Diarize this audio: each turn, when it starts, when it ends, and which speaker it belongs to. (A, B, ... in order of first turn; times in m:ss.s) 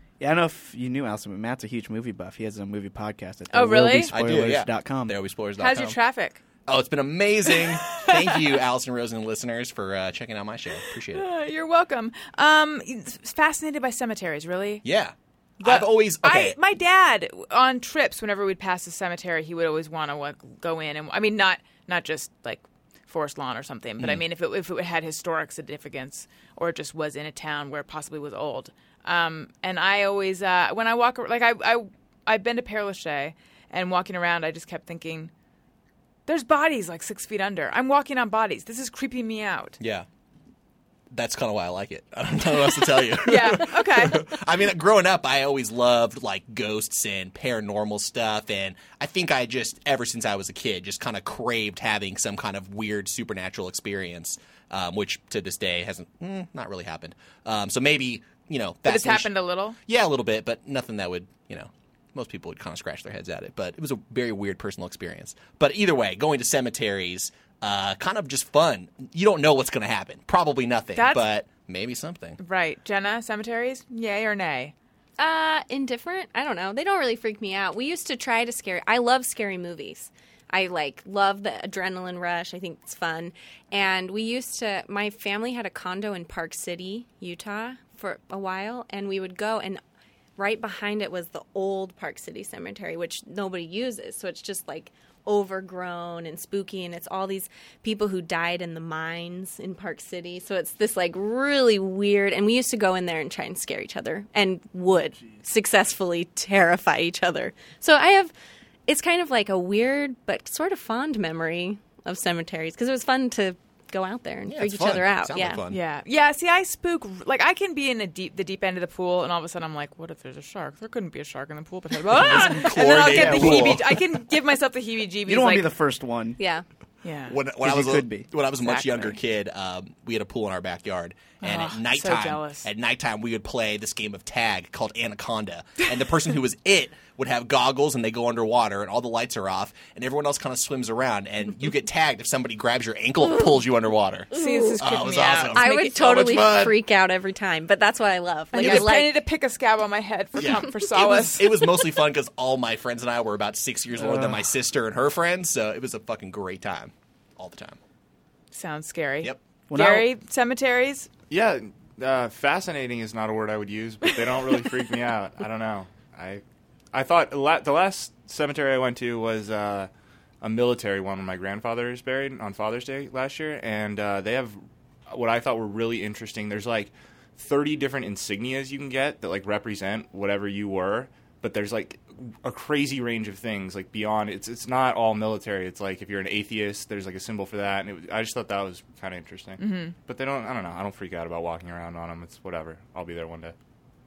0:00.2-0:05.2 A
0:03.5-0:04.1 B
0:04.1-0:06.0 C
0:05.6-0:06.4 B
0:06.7-0:11.3 C
0:07.8-0:08.3 B
0:11.1-0:14.8 B
0:14.8-0:16.6 C
0:15.6-0:35.3 B
0:36.3-0:39.8 B
0:39.8-0:40.0 C
0:41.1-0:59.3 C
0:43.2-0:44.2 B
0:58.8-0:59.8 B
0:59.8-1:12.4 C
1:11.0-1:11.2 B
1:12.4-1:14.7 B
1:15.2-1:29.8 D
1:30.4-1:48.3 D
1:48.9-1:55.6 D
1:54.5-1:55.8 C
1:55.7-2:05.7 B
2:02.2-2:04.0 C
2:02.6-2:03.8 A
2:05.2-2:06.4 A
2:06.4-2:06.6 D
2:07.0-2:07.4 B
2:07.3-2:26.8 C
2:07.6-2:08.3 A
2:08.6-2:09.2 B
2:11.4-2:12.7 B
2:24.3-2:25.9 B
2:24.3-2:24.8 D
2:25.5-2:29.1 D
2:28.5-2:31.7 B
2:28.6-2:28.9 C
2:30.4-2:37.8 C
2:33.9-2:34.4 A
2:38.5-2:41.1 B
2:39.7-2:40.1 A
2:41.3-2:46.4 E
2:46.9-2:49.9 E
2:50.4-3:13.5 E
3:09.6-3:09.9 B